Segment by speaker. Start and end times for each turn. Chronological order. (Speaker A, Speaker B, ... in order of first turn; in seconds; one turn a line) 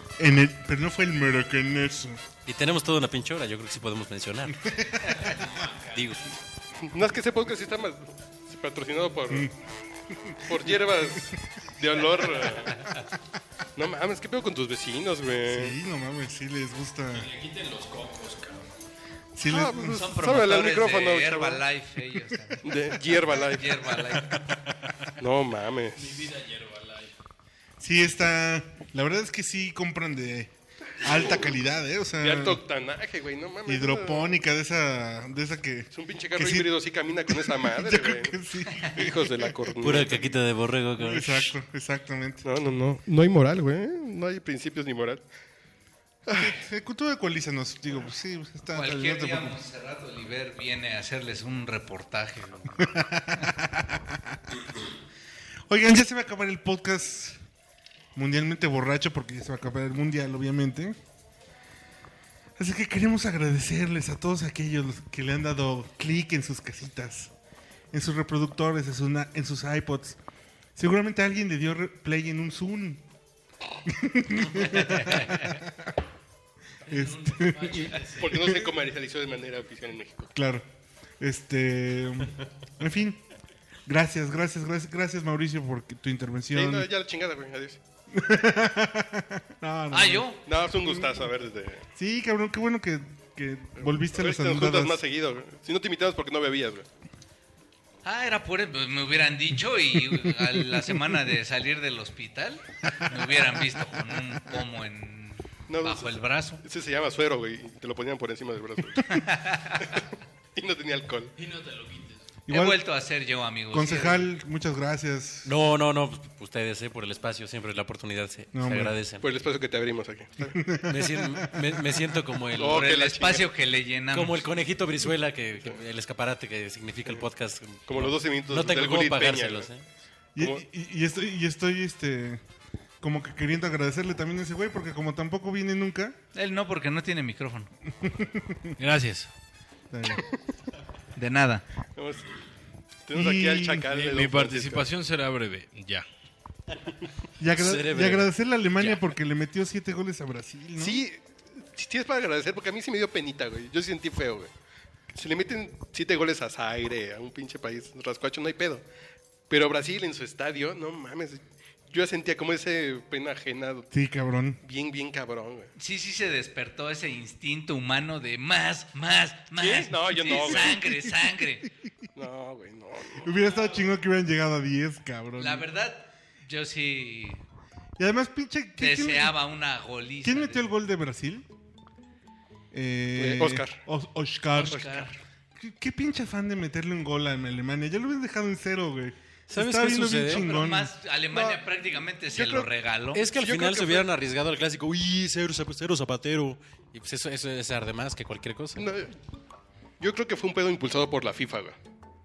Speaker A: 0.2-2.2
Speaker B: 2.5-4.7
Speaker A: 4.5-5.2
Speaker C: 5.1-5.4
Speaker B: 5.9-6.3
Speaker D: 6.8-9.5
Speaker A: 9.3-9.5
Speaker A: 10.1-11.3
Speaker D: 10.4-12.8
Speaker D: 13.8-15.8
Speaker A: 15.5-17.3
Speaker E: 17.1-18.7
Speaker A: 19.4-20.0
Speaker D: 19.5-21.6
Speaker C: 19.9-24.5
Speaker D: 22.6-23.9
Speaker D: 25.2-26.3
Speaker E: 26.0-27.1
Speaker A: 27.8-32.6
Speaker D: 32.2-34.3
Speaker A: 33.7-39.7
Speaker D: 35.9-40.4
Speaker B: 39.8-41.5
Speaker A: 41.0-42.5
Speaker D: 42.4-45.2
Speaker D: 46.3-46.6
Speaker A: 46.3-49.6
Speaker C: 48.7-53.5
Speaker A: 52.8-54.7
Speaker A: 55.7-57.4
Speaker A: 58.1-61.0
Speaker A: 62.6-67.3
Speaker A: 67.9-70.2
Speaker A: 70.8-73.0
Speaker A: 73.8-75.9
Speaker A: 76.9-78.7
Speaker E: 76.9-78.2
Speaker D: 78.2-80.3
Speaker A: 80.3-80.7
Speaker A: 81.2-83.2
Speaker A: 83.9-86.9
Speaker D: 86.5-87.8
Speaker A: 88.1-91.3
Speaker C: 89.9-90.4
Speaker D: 90.5-91.8
Speaker A: 92.0-95.0
Speaker D: 94.0-96.9
Speaker C: 98.0-106.6
Speaker A: 103.0-104.2
Speaker D: 105.7-109.2
Speaker C: 109.0-110.0
Speaker D: 109.8-111.3
Speaker E: 111.4-112.2
Speaker A: 112.5-112.8
Speaker C: 112.5-114.3
Speaker A: 113.7-115.5
Speaker B: 115.5-119.3
Speaker A: 118.5-118.9
Speaker D: 119.2-120.6
Speaker A: 120.4-122.0
Speaker B: 120.9-122.9
Speaker D: 122.5-123.5
Speaker C: 122.6-124.5
Speaker B: 124.1-129.8
Speaker D: 127.9-129.7
Speaker A: 130.3-132.4
Speaker A: 133.0-136.2
Speaker C: 136.3-137.7
Speaker A: 138.0-138.8
Speaker B: 138.8-139.3
Speaker A: 139.9-140.3
Speaker C: 141.2-141.7
Speaker D: 142.0-142.3
Speaker D: 143.1-144.9
Speaker A: 143.1-144.0
Speaker E: 143.9-146.1
Speaker A: 147.4-151.0
Speaker B: 147.6-149.1
Speaker D: 150.8-154.5
Speaker D: 155.1-158.8
Speaker D: 159.5-163.9
Speaker A: 163.9-164.6
Speaker D: 164.6-165.7
Speaker C: 165.8-171.7
Speaker D: 169.6-170.8
Speaker A: 170.3-171.3
Speaker D: 172.2-173.3
Speaker A: 173.2-175.7
Speaker C: 175.4-177.4
Speaker A: 178.0-179.4
Speaker C: 178.8-180.7
Speaker A: 180.2-181.5
Speaker A: 182.7-185.1
Speaker D: 183.2-183.8
Speaker C: 184.6-185.2
Speaker A: 185.6-190.9
Speaker B: 189.5-190.5
Speaker C: 190.3-193.2
Speaker D: 191.3-192.7
Speaker B: 193.1-198.9
Speaker D: 193.3-194.1
Speaker D: 198.8-199.1
Speaker D: 200.0-201.8